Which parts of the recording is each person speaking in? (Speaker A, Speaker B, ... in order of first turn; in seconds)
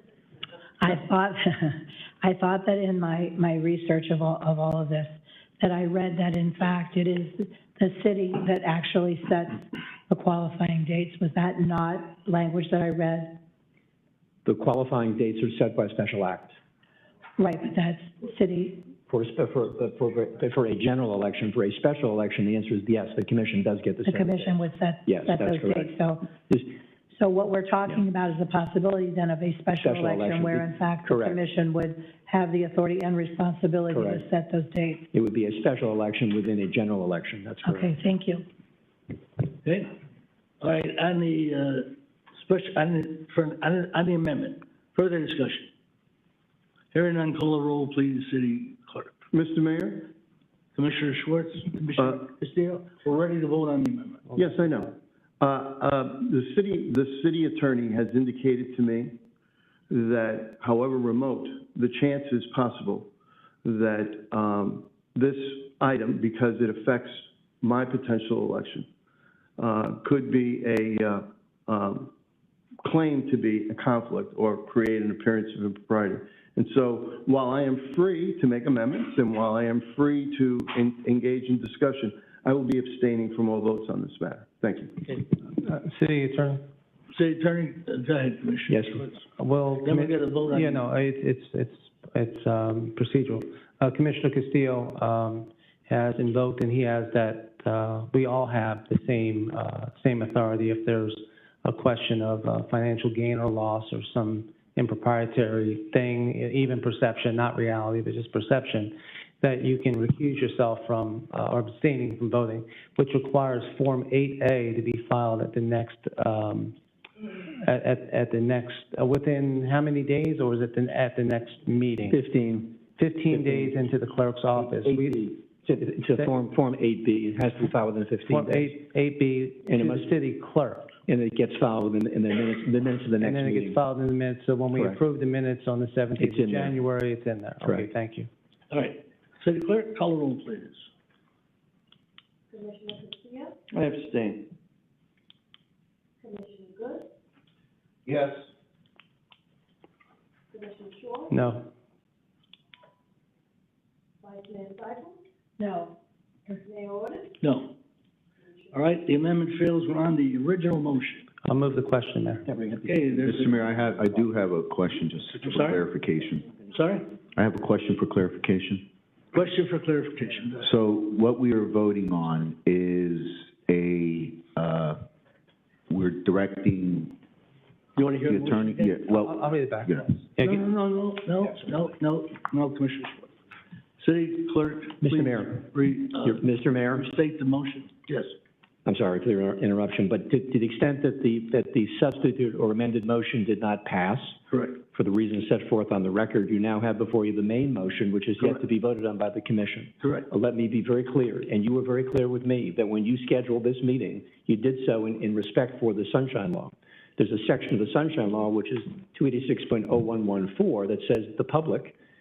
Speaker A: 0.8-13.4, 17.4-18.9, 24.1-26.3, 27.1-35.0, 37.6-38.4, 155.6-155.9
Speaker B: 14.4-16.6, 19.1-25.9, 29.8-31.4, 33.9-34.2, 35.1-37.9, 88.7-89.0, 122.1-123.8, 124.5-128.8, 129.7-130.1, 131.1-133.8, 134.7-135.0, 136.2-136.8, 137.6-137.9, 162.5-163.0, 185.0-185.6, 186.2-187.1, 188.8-211.9
Speaker C: 39.6-39.9, 40.6-45.7, 46.9-49.1, 50.8-54.2, 87.1-89.1, 89.7-90.8, 138.7-140.8, 157.4-157.7, 158.7-161.3, 162.8-163.6, 165.4-165.8, 166.6-167.1, 169.3-170.7, 177.9-179.3, 180.4-183.3, 184.0-188.3, 194.5-194.8, 200.0-200.3
Speaker D: 49.3-50.1, 52.0-52.2, 54.3-59.2, 59.9-63.1, 63.6-68.9, 69.6-72.1, 72.8-85.1, 143.7-144.5, 148.1-148.4
Speaker E: 85.5-86.6, 89.4-116.7, 117.6-122.2, 123.0-125.3, 128.3-130.9, 133.2-138.3, 151.3-151.7, 161.4-162.4, 179.1-180.6
Speaker F: 163.1-166.5, 167.3-168.9, 170.6-175.0, 175.9-177.2, 178.3-180.0